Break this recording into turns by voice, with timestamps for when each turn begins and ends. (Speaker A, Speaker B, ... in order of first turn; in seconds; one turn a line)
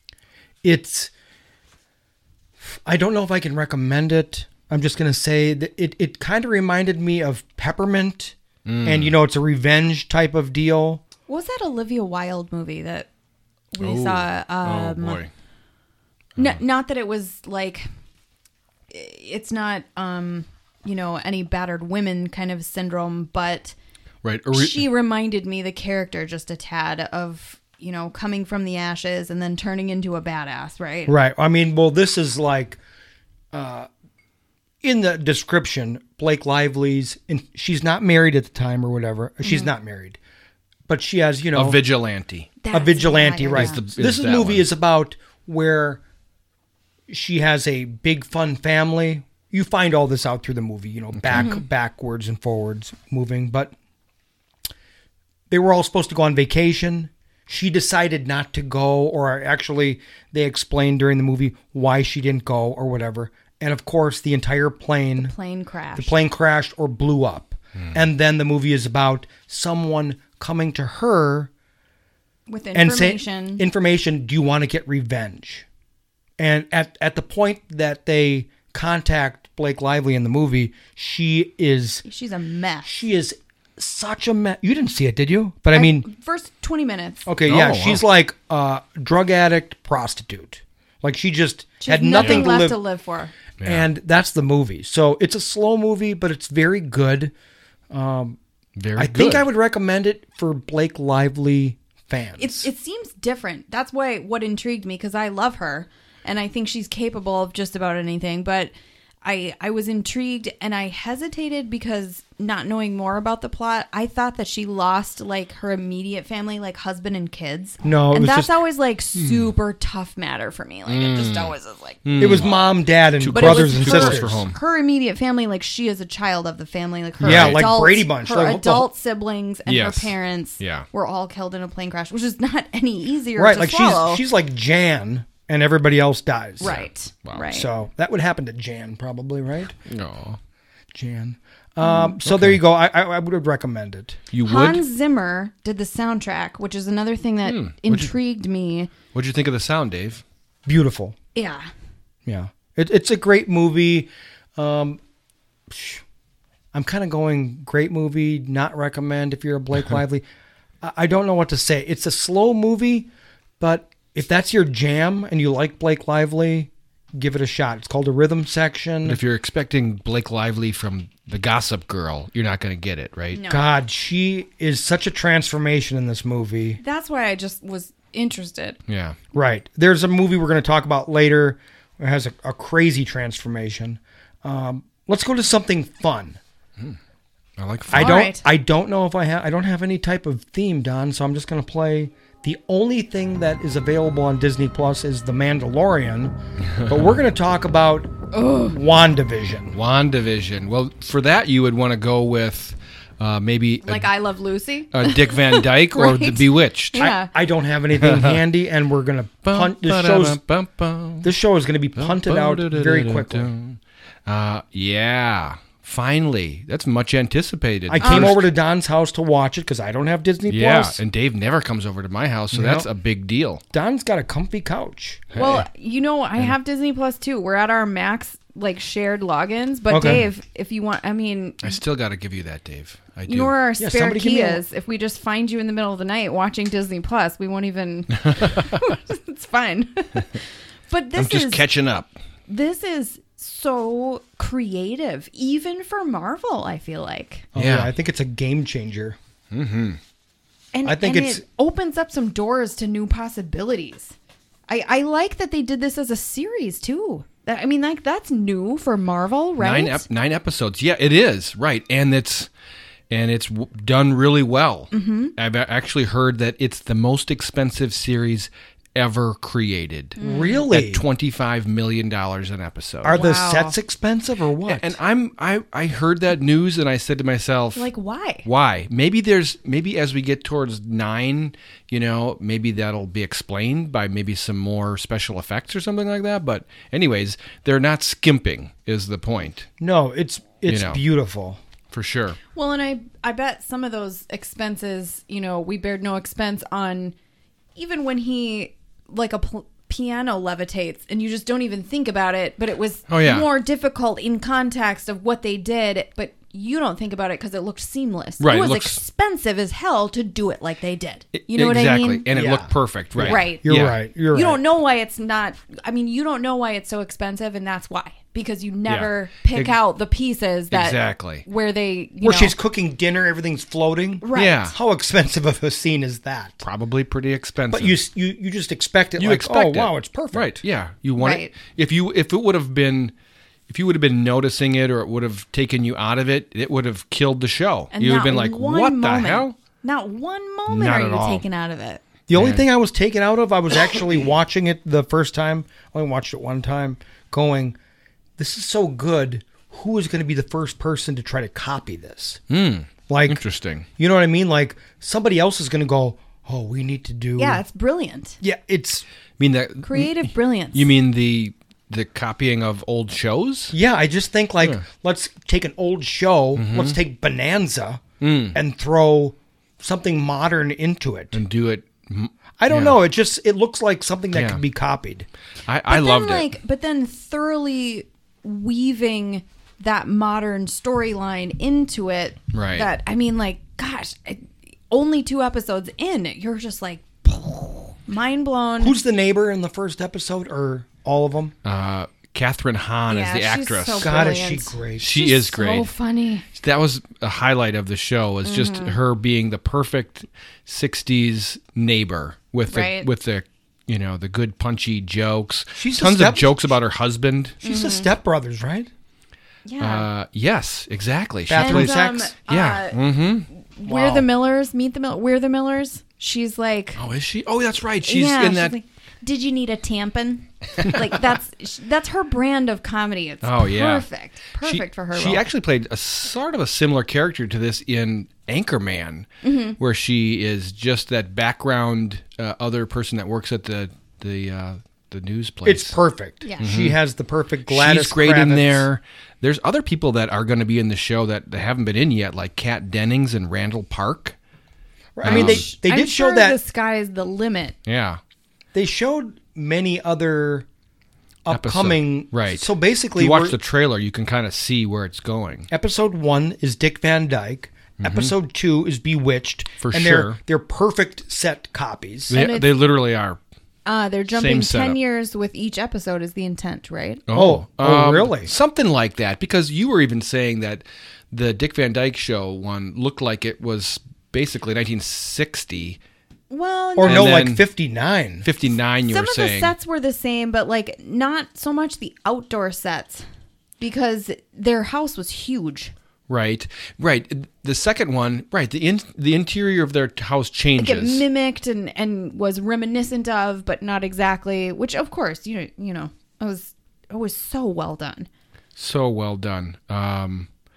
Speaker A: 0.6-1.1
Speaker A: 2.7-11.0
Speaker B: 8.7-9.2
Speaker C: 11.3-13.1
Speaker C: 13.7-15.2
Speaker B: 13.8-15.3
Speaker C: 16.4-17.9
Speaker C: 18.9-23.8
Speaker B: 24.2-24.9
Speaker C: 24.5-31.1
Speaker A: 31.1-32.8
Speaker A: 33.5-33.9
Speaker A: 34.8-40.2
Speaker C: 39.5-39.7
Speaker A: 40.9-41.8
Speaker B: 41.5-42.6
Speaker C: 42.6-43.8
Speaker A: 42.7-46.0
Speaker B: 43.5-44.6
Speaker A: 47.1-53.7
Speaker B: 51.2-51.5
Speaker C: 51.4-51.6
Speaker A: 55.5-65.3
Speaker C: 65.2-66.2
Speaker A: 66.0-71.5
Speaker C: 72.5-73.7
Speaker A: 72.7-75.7
Speaker A: 76.4-82.0
Speaker C: 82.0-82.9
Speaker A: 82.8-86.1
Speaker C: 85.7-87.3
Speaker A: 87.3-92.8
Speaker B: 87.5-88.0
Speaker C: 91.8-93.3
Speaker B: 92.2-92.5
Speaker B: 93.6-93.9
Speaker A: 93.6-97.3
Speaker A: 97.9-98.4
Speaker B: 98.8-99.5
Speaker A: 99.0-102.7
Speaker C: 102.4-122.6
Speaker A: 117.8-118.5
Speaker B: 119.2-119.5
Speaker B: 120.9-121.5
Speaker B: 122.0-122.6
Speaker A: 122.2-124.4
Speaker B: 123.2-124.6
Speaker C: 123.3-134.2
Speaker B: 127.2-127.7
Speaker A: 127.2-128.9
Speaker B: 129.7-130.9
Speaker A: 133.4-136.7
Speaker C: 136.6-137.7
Speaker B: 136.6-137.4
Speaker A: 137.5-139.8
Speaker B: 139.9-140.4
Speaker A: 140.9-144.2
Speaker C: 141.8-142.1
Speaker B: 142.2-142.6
Speaker B: 144.3-144.8
Speaker C: 144.4-148.9
Speaker B: 147.4-148.1
Speaker B: 149.1-150.2
Speaker A: 150.7-151.2
Speaker C: 151.3-151.7
Speaker A: 152.3-155.0
Speaker A: 155.7-156.0
Speaker A: 156.7-160.2
Speaker A: 160.8-163.1
Speaker A: 163.6-169.2
Speaker B: 169.1-173.4
Speaker C: 173.3-173.7
Speaker A: 173.5-176.8
Speaker C: 176.8-178.8
Speaker B: 178.9-179.2
Speaker A: 179.3-186.4
Speaker B: 187.6-188.2
Speaker A: 187.9-196.3
Speaker C: 187.9-188.4
Speaker B: 196.7-197.1
Speaker A: 196.9-199.8
Speaker C: 198.3-198.8
Speaker B: 199.7-204.1
Speaker C: 203.8-207.3
Speaker B: 204.9-207.1
Speaker A: 207.0-210.4
Speaker B: 207.9-208.4
Speaker B: 209.4-211.3
Speaker A: 211.2-213.5
Speaker B: 212.0-218.5
Speaker A: 217.9-221.0
Speaker C: 218.0-218.4
Speaker B: 220.5-223.6
Speaker A: 222.5-222.9
Speaker A: 223.7-225.4
Speaker B: 225.3-225.7
Speaker C: 225.4-231.8
Speaker A: 229.9-230.2
Speaker B: 231.6-233.5
Speaker C: 233.3-241.6
Speaker A: 233.8-234.6
Speaker B: 238.2-238.7
Speaker B: 241.2-242.1
Speaker C: 242.5-247.5
Speaker A: 247.5-249.2
Speaker B: 247.6-247.9
Speaker B: 249.5-250.0
Speaker C: 250.7-254.2
Speaker A: 250.8-251.4
Speaker C: 254.7-260.0
Speaker B: 259.6-262.5
Speaker B: 263.1-270.2
Speaker C: 264.9-265.3
Speaker C: 270.2-270.6
Speaker A: 270.2-271.0
Speaker B: 270.7-273.2
Speaker A: 273.0-275.0
Speaker C: 273.1-273.8
Speaker B: 274.7-277.9
Speaker C: 277.8-278.5
Speaker B: 278.4-289.7
Speaker A: 289.8-291.6
Speaker B: 290.7-291.0
Speaker B: 291.9-292.4
Speaker C: 292.6-297.1
Speaker C: 297.8-312.2
Speaker B: 303.1-303.5
Speaker B: 308.4-309.0
Speaker B: 311.3-314.0
Speaker A: 312.3-314.6
Speaker C: 313.3-313.6
Speaker C: 314.3-322.6
Speaker B: 318.9-319.8
Speaker B: 320.7-321.4
Speaker A: 322.2-326.6
Speaker C: 324.2-324.7
Speaker B: 324.3-324.8
Speaker B: 326.6-328.0
Speaker A: 327.7-330.6
Speaker B: 329.2-333.1
Speaker C: 331.2-331.5
Speaker B: 333.7-339.6
Speaker C: 337.9-342.0
Speaker B: 340.7-341.4
Speaker A: 342.3-347.8
Speaker B: 342.3-342.6
Speaker A: 348.4-352.4
Speaker B: 352.5-353.9
Speaker A: 353.1-353.4
Speaker A: 354.0-357.6
Speaker C: 357.4-358.4
Speaker A: 358.4-359.1
Speaker B: 359.4-363.8
Speaker C: 359.8-360.9
Speaker A: 363.7-371.4
Speaker B: 366.6-367.0
Speaker B: 368.2-368.6
Speaker B: 371.3-373.0
Speaker A: 372.6-375.3
Speaker B: 374.3-374.6
Speaker B: 375.7-376.5
Speaker C: 375.9-389.0
Speaker B: 382.5-382.9
Speaker A: 388.8-391.5
Speaker B: 391.6-394.4
Speaker C: 393.1-396.4
Speaker A: 394.0-395.1
Speaker B: 395.0-395.9
Speaker B: 396.5-407.6
Speaker C: 398.4-399.0
Speaker C: 402.7-403.1
Speaker A: 405.8-406.7
Speaker A: 407.6-408.9
Speaker C: 407.6-408.1
Speaker C: 409.6-410.1
Speaker B: 409.8-413.5
Speaker A: 411.5-412.3
Speaker C: 411.6-413.0
Speaker C: 413.6-417.0
Speaker A: 413.9-414.3
Speaker B: 417.0-418.8
Speaker C: 418.0-425.4
Speaker B: 420.8-421.2
Speaker B: 423.4-424.1
Speaker B: 424.6-435.9
Speaker C: 429.4-429.8
Speaker A: 435.6-438.9
Speaker C: 436.4-436.7
Speaker B: 436.6-437.0
Speaker B: 437.7-444.4
Speaker A: 445.1-446.6
Speaker B: 445.2-445.6
Speaker C: 445.2-447.8
Speaker B: 447.9-448.2
Speaker A: 448.7-450.7
Speaker A: 451.4-453.6
Speaker B: 451.5-455.7
Speaker A: 455.7-462.4
Speaker B: 458.0-458.3
Speaker B: 459.8-460.4
Speaker B: 462.3-463.4
Speaker C: 462.3-462.7
Speaker C: 463.9-467.2
Speaker B: 464.3-465.0
Speaker B: 467.3-476.0
Speaker A: 467.3-468.5
Speaker C: 476.5-477.4
Speaker A: 477.0-478.5
Speaker B: 477.1-477.6
Speaker B: 478.4-479.7
Speaker C: 479.1-483.2
Speaker C: 483.8-485.9
Speaker B: 486.3-491.2
Speaker C: 490.8-498.3
Speaker B: 498.8-500.5